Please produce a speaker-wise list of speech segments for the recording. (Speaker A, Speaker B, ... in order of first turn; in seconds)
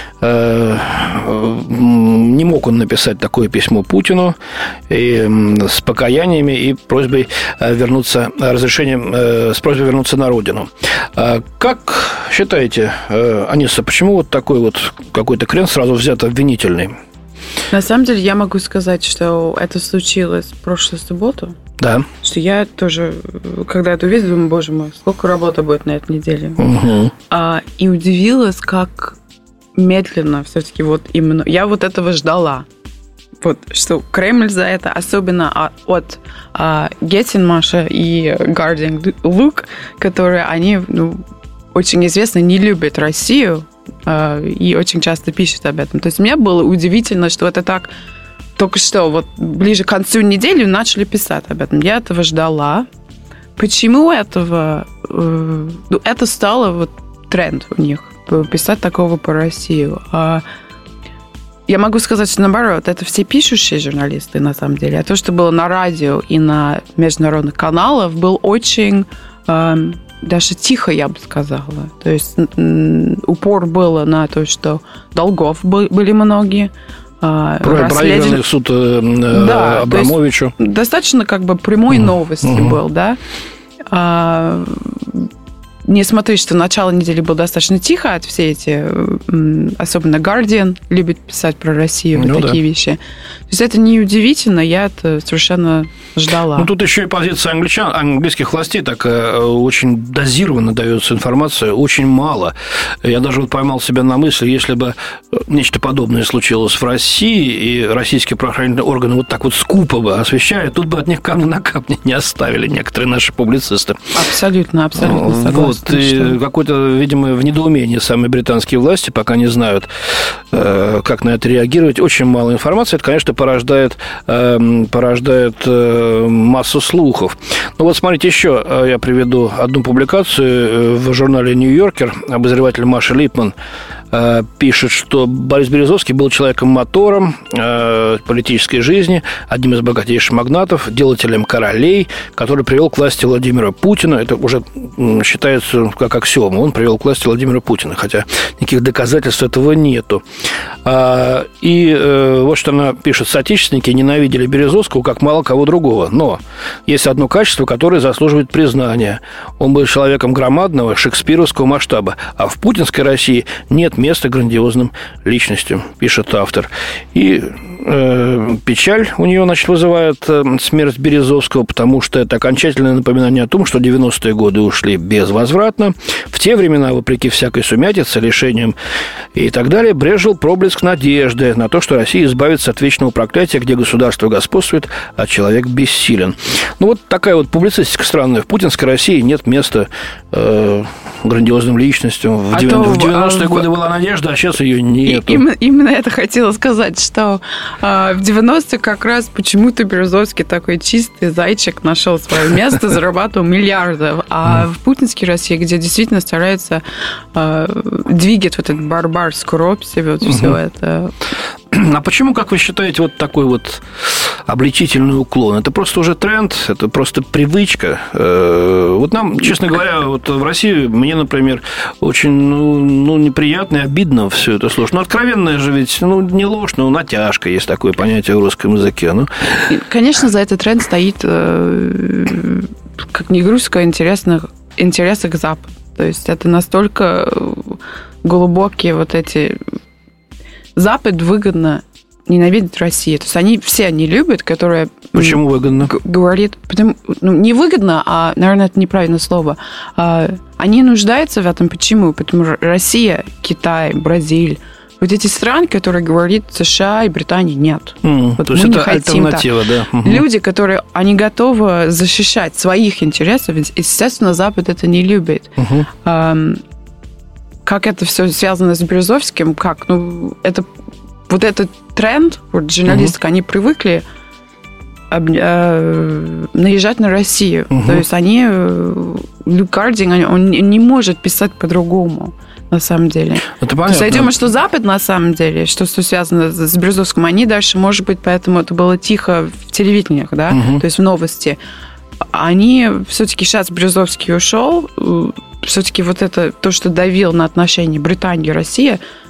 Speaker A: 0.2-4.4, 4.9-16.9, 21.8-22.1, 26.6-27.1, 77.6-80.5, 81.9-82.8, 92.2-92.6, 96.5-114.1, 115.0-133.6, 134.1-150.2, 150.8-178.8, 179.3-195.4, 210.2-210.6, 211.7-229.7, 245.1-245.9, 258.0-260.2, 265.6-265.9, 272.9-273.1, 277.7-278.0, 283.6-284.3, 290.5-290.8
Speaker B: 17.7-21.6, 22.2-26.7, 27.3-29.2, 29.8-32.7, 33.4-41.2, 41.7-47.9, 48.6-52.9, 53.6-60.4, 61.7-78.4, 79.3-83.2, 83.9-85.3, 85.8-96.7, 114.1-116.4, 192.5-193.7, 195.0-211.1, 229.7-239.6, 240.8-266.6, 267.6-270.7, 271.3-274.0, 275.1-291.6, 292.3-299.0